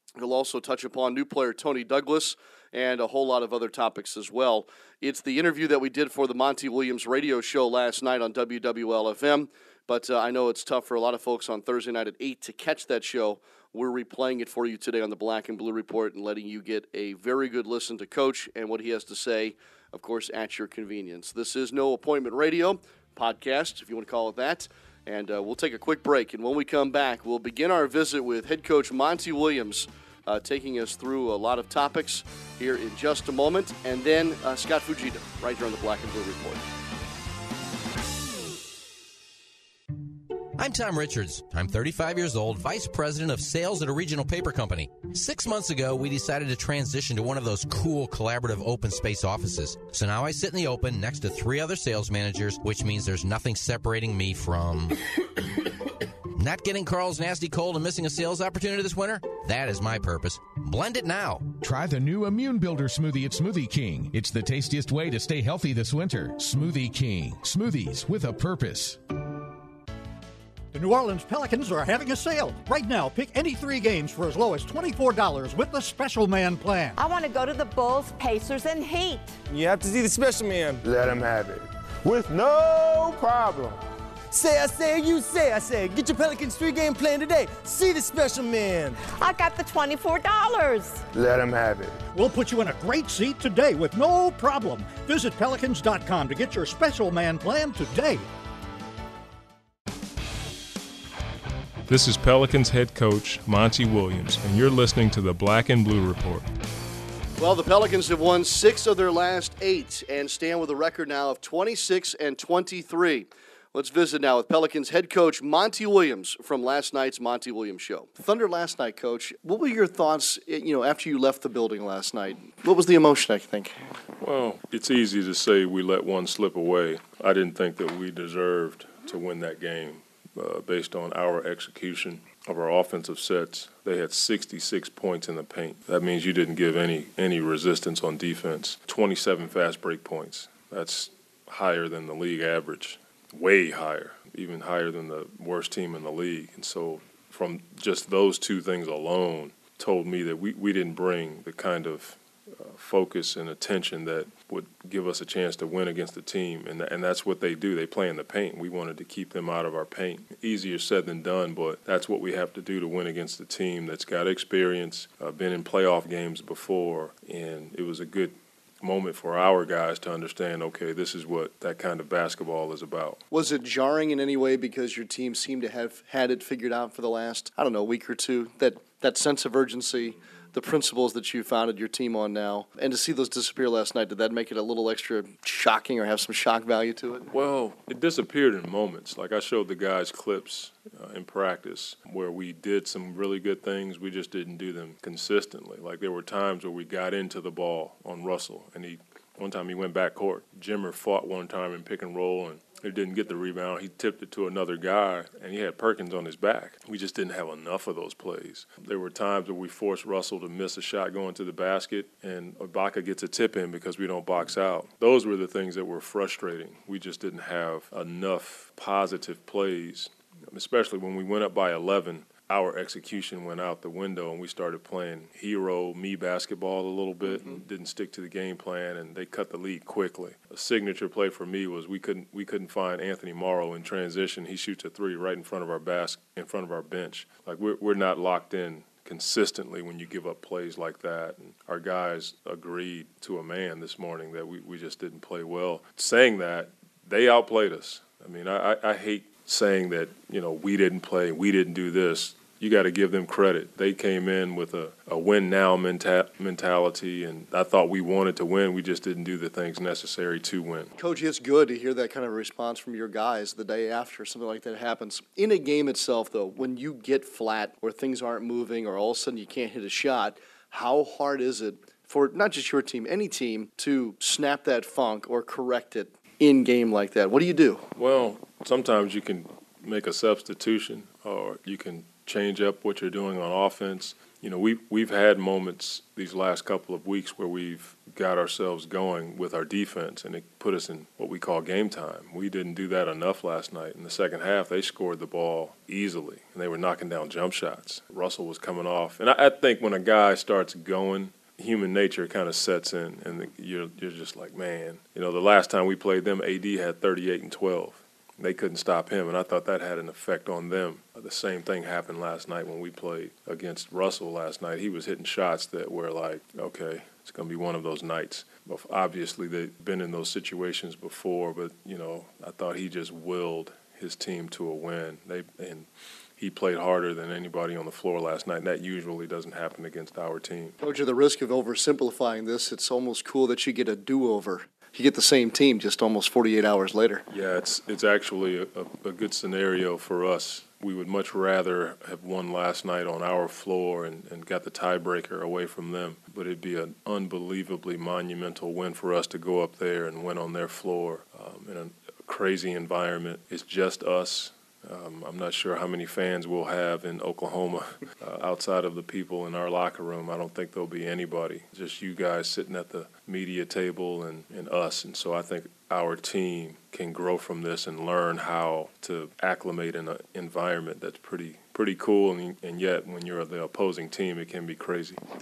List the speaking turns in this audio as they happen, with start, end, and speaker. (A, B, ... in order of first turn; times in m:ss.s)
0:00.2-0:36.6 A
0:40.6-0:54.9 B
0:56.3-1:01.6 B
1:01.5-1:09.0 C
1:10.7-1:17.0 D
1:16.9-1:19.4 E
1:19.5-1:23.8 F
1:24.3-1:29.0 F
1:29.1-1:31.0 E
1:31.1-1:32.0 F
1:32.1-1:38.3 D
1:41.9-1:46.4 G
1:47.4-2:03.7 A
2:04.2-2:53.2 G
2:53.3-3:07.3 A
3:07.3-4:20.9 G
4:21.0-4:37.8 A
4:38.0-5:25.9 G
5:26.4-5:30.8 G
5:30.8-5:37.2 A
5:37.3-6:15.2 G